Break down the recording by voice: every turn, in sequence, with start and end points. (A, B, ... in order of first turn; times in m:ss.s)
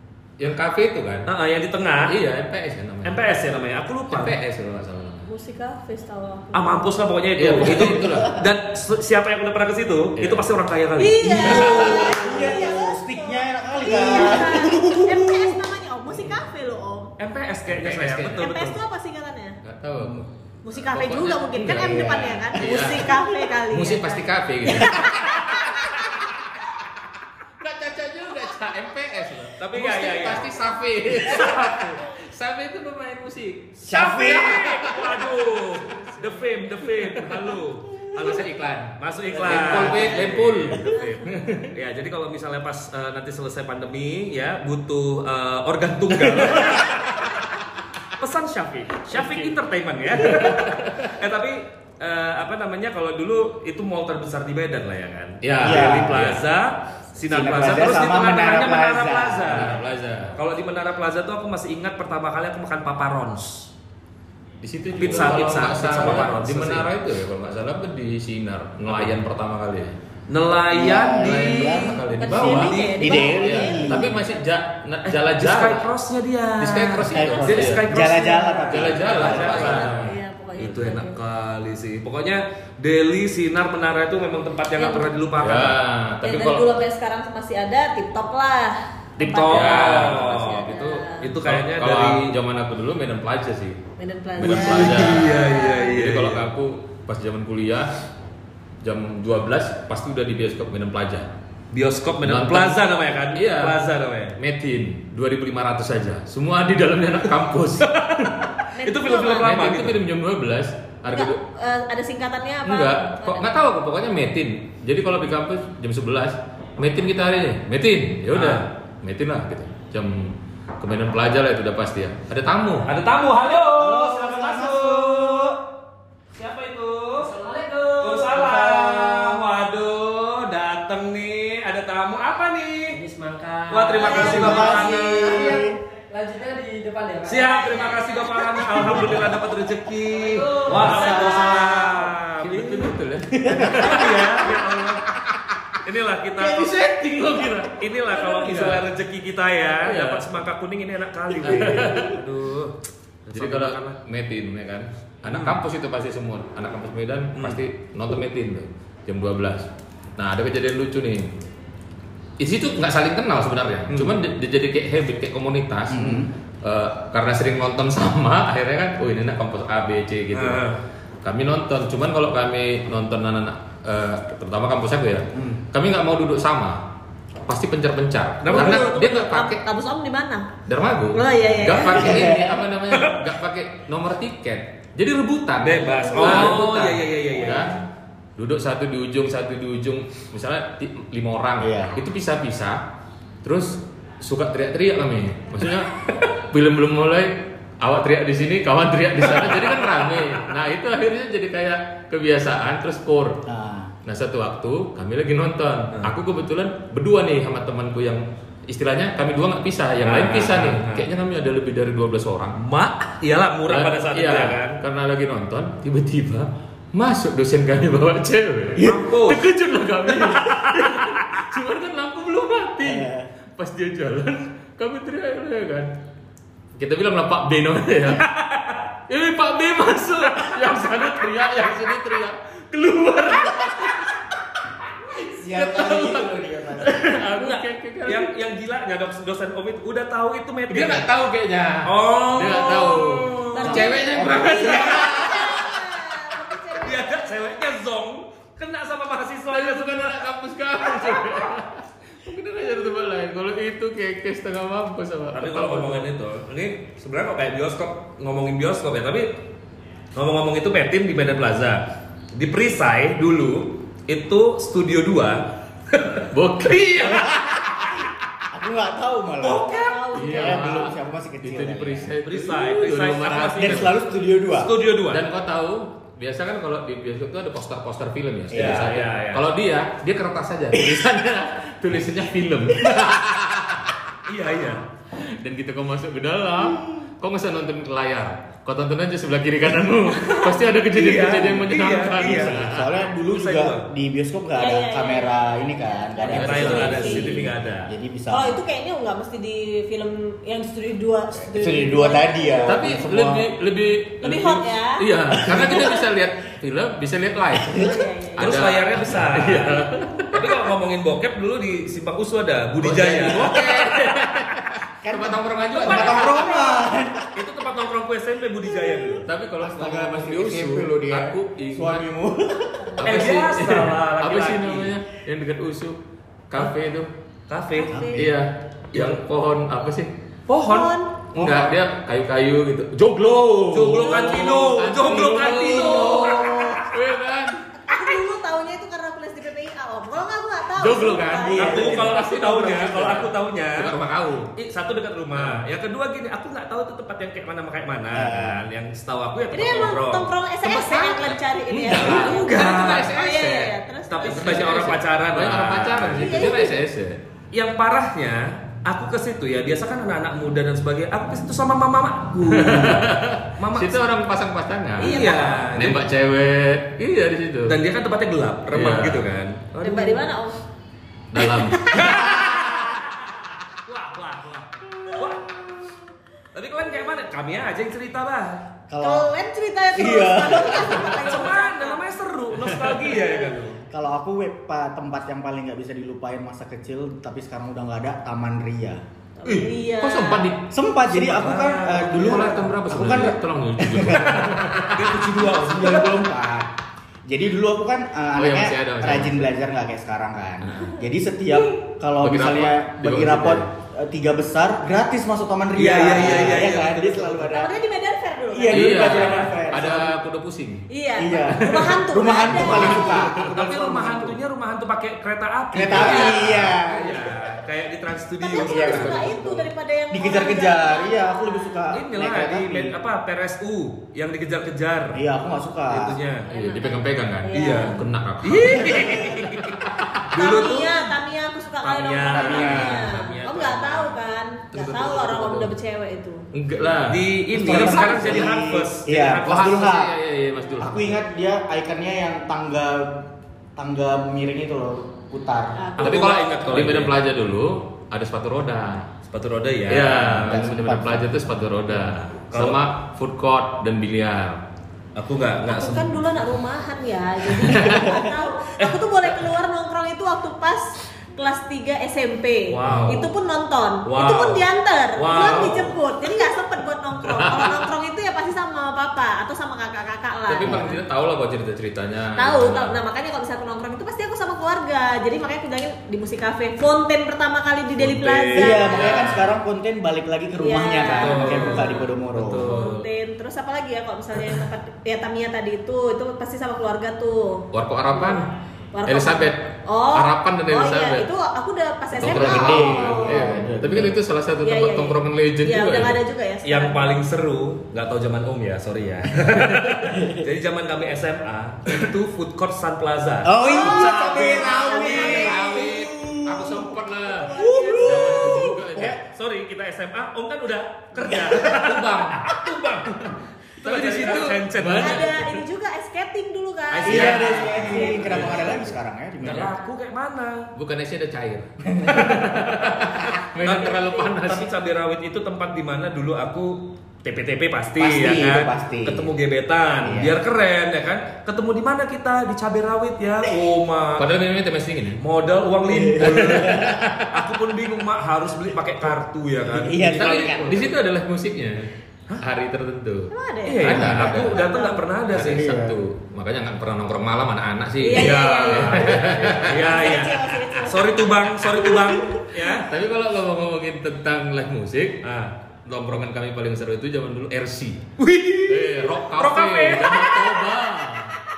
0:00.4-0:01.3 A
0:01.2-0:02.2 B
0:02.0-0:03.2 A
0:03.0-0:04.4 B
0:04.1-0:05.2 A
0:05.2-0:07.0 C
0:06.5-0:12.4 B
0:07.4-0:08.4 A
0:07.8-0:08.4 D
0:10.2-0:10.5 A
0:11.0-0:17.1 C
0:11.3-0:15.6 D
0:11.4-0:12.0 A
0:16.1-0:16.4 A
0:17.2-0:18.8 B
0:17.7-0:18.5 A
0:18.4-0:19.6 C
0:19.6-0:25.8 A
0:20.0-0:20.2 D
0:20.6-0:25.9 C
0:21.9-0:22.3 D
0:27.6-0:35.3 A
0:29.6-0:32.0 B
0:33.8-0:34.8 D
0:33.9-0:47.2 B
0:36.9-0:37.4 A
0:38.1-0:41.7 A
0:39.3-0:40.9 D
0:48.2-0:59.8 B
0:49.1-0:49.5 A
0:50.1-0:51.1 A
0:55.4-0:56.4 A
0:55.6-0:56.4 D
0:57.2-0:59.8 D
0:59.5-1:00.4 A
1:00.3-1:03.7 B
1:04.6-1:09.9 A
1:04.9-1:06.9 B
1:08.9-1:09.2 B
1:10.3-1:13.3 B
1:10.7-1:12.0 D
1:11.1-1:15.9 A
1:12.2-1:14.4 C
1:13.0-1:14.1 D
1:15.0-1:25.8 B
1:16.6-1:17.9 A
1:17.1-1:19.7 D
1:18.0-1:21.2 C
1:18.7-1:20.1 A
1:24.7-1:25.1 C
1:25.4-1:26.7 A
1:26.2-1:31.3 C
1:29.2-1:30.7 B
1:29.5-1:33.8 A
1:31.2-1:32.3 B
1:34.0-1:36.0 C
1:34.4-1:38.0 A
1:34.4-1:36.4 B
1:38.8-1:41.3 A
1:41.7-1:44.4 B
1:42.2-1:42.8 A
1:43.3-1:43.8 A
1:44.4-1:48.3 A
1:47.8-1:50.0 B
1:48.8-1:49.5 C
1:49.2-1:51.4 A
1:51.1-1:53.6 C
1:52.6-2:02.9 A
1:58.3-1:58.7 B
2:02.8-2:05.6 B
2:03.8-2:05.6 D
2:06.3-2:07.3 B
2:07.4-2:08.2 C
2:07.4-2:09.0 E
2:08.0-2:13.0 B
2:13.0-2:14.2 E
2:13.4-2:19.0 C
2:13.7-2:15.6 B
2:14.0-2:15.8 D
2:14.3-2:14.7 A
2:15.3-2:17.5 E
2:17.3-2:23.0 B
2:20.3-2:22.0 C
2:20.3-2:20.8 E
2:20.9-2:21.8 D
2:22.4-2:24.6 A
2:23.3-2:24.0 D
2:23.7-2:25.1 B
2:25.8-2:26.7 B
2:26.4-2:28.8 A
2:27.8-2:34.0 B
2:29.8-2:30.2 A
2:31.4-2:32.2 A
2:33.3-2:41.3 A
2:35.2-2:35.6 B
2:42.4-2:50.7 A
2:43.9-2:44.2 B
2:45.9-2:46.3 D
2:50.3-2:50.8 B
2:51.2-2:56.9 A
2:55.3-2:55.6 D
2:57.4-2:59.6 A
2:58.4-2:59.0 B
2:58.5-3:00.5 C
3:00.6-3:07.8 A
3:01.1-3:02.3 C
3:01.8-3:02.6 D
3:02.9-3:03.2 B
3:05.6-3:07.8 B
3:08.4-3:12.8 A
3:11.6-3:12.0 D
3:13.4-3:23.4 A
3:19.3-3:20.4 B
3:23.5-3:23.9 D
3:24.0-3:32.6 A
3:30.0-3:31.1 B
3:32.6-3:34.8 B
3:33.7-3:45.9 A
3:38.8-3:39.4 B
3:40.1-3:41.2 B
3:42.8-3:43.3 D
3:46.8-3:48.3 A
3:48.1-3:48.8 B
3:49.1-3:54.1 A
3:55.1-3:58.3 A
3:55.2-3:57.2 D
3:57.3-4:01.1 B
4:00.7-4:05.7 A
4:01.8-4:03.8 B
4:03.5-4:07.1 C
4:03.6-4:05.6 D
4:06.8-4:10.3 B
4:09.5-4:16.1 A
4:15.3-4:19.4 B
4:20.1-4:21.8 B
4:22.3-4:27.3 B
4:26.3-4:27.8 A
4:28.5-4:32.2 D
4:29.4-4:30.1 B
4:29.5-4:30.8 C
4:30.1-4:33.9 A
4:32.2-4:33.9 B
4:33.6-4:34.7 D
4:34.5-4:35.2 B
4:35.1-4:43.9 A
4:38.5-4:39.0 D
4:38.5-4:39.4 B
4:40.7-4:41.1 D
4:42.8-4:43.1 D
4:44.3-4:44.8 B
4:45.1-4:52.9 A
4:50.9-4:53.9 B
4:52.2-4:58.6 D
4:54.6-4:57.4 C
4:56.2-4:57.9 B
4:56.3-4:57.4 A
4:58.3-5:02.8 C
5:01.4-5:03.5 D
5:02.6-5:10.4 A
5:04.2-5:06.0 C
5:05.5-5:05.9 D
5:07.7-5:08.6 C
5:08.4-5:13.7 B
5:12.8-5:16.4 A
5:13.0-5:13.6 D
5:15.0-5:17.3 D
5:15.7-5:16.5 B
5:15.8-5:16.9 C
5:17.3-5:19.2 B
5:19.2-5:22.0 A
5:19.6-5:23.2 D
5:23.0-5:27.1 A
5:23.0-5:24.9 B
5:27.5-5:28.0 B
5:27.8-5:28.2 C
5:27.9-5:28.3 D
5:28.1-5:30.2 A
5:28.9-5:29.2 B
5:30.5-5:30.9 B
5:30.7-5:31.2 C
5:31.3-5:37.6 A
5:31.4-5:31.7 D
5:33.7-5:36.7 B
5:34.0-5:36.5 C
5:35.8-5:36.8 D
5:37.8-5:41.8 C
5:40.8-5:44.5 A
5:41.4-5:42.2 D
5:41.5-5:44.0 B
5:44.6-5:50.3 B
5:45.3-5:45.6 A
5:48.1-5:48.6 D
5:49.5-5:54.7 C
5:50.6-5:57.2 A
5:51.9-5:53.1 B
5:54.1-5:56.5 B
5:56.1-5:56.8 C
5:57.5-6:04.0 B
6:02.5-6:07.8 A
6:05.0-6:06.0 B
6:05.0-6:05.8 C
6:07.6-6:10.3 B
6:08.7-6:09.2 A
6:09.8-6:10.6 C
6:11.3-6:12.2 A
6:11.4-6:12.2 C
6:11.9-6:15.9 B
6:16.5-6:18.6 B
6:18.9-6:19.3 D
6:19.0-6:22.0 C
6:19.9-6:21.1 D
6:21.0-6:23.8 B
6:22.6-6:23.0 A
6:23.9-6:29.0 D
6:29.4-6:30.5 C
6:29.4-6:30.6 A
6:30.7-6:34.4 D
6:31.1-6:32.7 B
6:32.1-6:35.2 A
6:34.1-6:36.2 B
6:35.4-6:36.7 D
6:37.3-6:47.8 D
6:38.4-6:39.5 A
6:40.6-6:40.9 A
6:42.2-6:43.7 A
6:45.8-6:47.5 B
6:47.5-6:49.2 C
6:48.5-6:50.2 D
6:48.7-6:50.8 A
6:49.0-6:49.6 B
6:50.9-6:53.3 C
6:51.2-6:54.4 D
6:51.5-6:53.5 A
6:52.8-6:59.3 B
6:55.7-6:57.4 D
6:56.0-6:56.5 C
6:56.0-6:56.4 A
6:58.4-7:01.9 C
6:58.6-7:02.9 D
6:58.8-6:59.5 A
7:01.9-7:05.2 B
7:05.1-7:06.2 D
7:05.9-7:06.5 B
7:06.4-7:08.0 C
7:06.5-7:09.2 A
7:07.5-7:11.1 B
7:08.9-7:09.3 D
7:10.3-7:16.4 C
7:11.8-7:14.2 B
7:12.3-7:13.0 A
7:12.4-7:13.0 D
7:14.7-7:15.7 A
7:16.5-7:18.6 A
7:17.0-7:20.0 B
7:17.5-7:20.1 D
7:19.4-7:21.2 A
7:20.8-7:25.8 D
7:25.8-7:26.3 C
7:26.0-7:27.1 B
7:26.0-7:29.1 A
7:29.3-7:30.5 B
7:29.9-7:34.6 A
7:30.2-7:31.4 D
7:32.0-7:32.8 B
7:35.1-7:36.3 B
7:35.6-7:51.0 C
7:37.6-7:38.1 A
7:38.8-7:39.4 B
7:42.7-7:43.3 B
7:42.8-7:43.2 A
7:44.0-7:44.6 B
7:45.2-7:45.9 B
7:47.3-7:47.9 A
7:50.5-7:53.0 A
7:50.6-7:50.9 D
7:52.4-7:59.2 C
7:58.0-7:59.3 B
7:58.5-8:02.7 D
7:58.9-7:59.5 A
8:00.6-8:01.8 C
8:01.1-8:03.0 B
8:01.6-8:01.8 A
8:02.6-8:08.4 C
8:07.7-8:08.5 A
8:08.9-8:13.7 C
8:09.0-8:11.3 A
8:12.1-8:16.2 A
8:12.2-8:14.2 D
8:14.6-8:17.2 C
8:16.6-8:25.6 B
8:20.1-8:20.4 D
8:23.4-8:29.2 D
8:23.6-8:25.9 C
8:23.9-8:29.2 A
8:27.2-8:28.8 C
8:29.0-8:35.3 B
8:31.2-8:31.6 D
8:31.6-8:32.5 A
8:33.8-8:35.6 A
8:35.0-8:38.5 C
8:36.9-8:38.8 B
8:37.0-8:39.7 D
8:37.1-8:38.9 A
8:39.4-8:40.7 B
8:40.8-8:44.7 A
8:41.9-8:42.5 D
8:43.6-8:54.3 B
8:48.0-8:49.3 D
8:50.0-8:50.4 D
8:54.2-8:55.2 A
8:55.2-9:00.9 B
8:55.9-8:57.2 D
8:56.2-8:57.2 A
8:59.7-9:00.9 D
9:00.0-9:03.3 A
9:03.3-9:05.1 C
9:03.7-9:05.7 B
9:03.8-9:04.6 A
9:03.9-9:04.5 D
9:05.3-9:10.1 A
9:05.3-9:06.0 D
9:08.0-9:11.5 C
9:08.1-9:12.9 B
9:12.8-9:15.2 A
9:15.2-9:15.5 B
9:15.8-9:18.0 A
9:18.2-9:20.6 B
9:18.7-9:21.4 A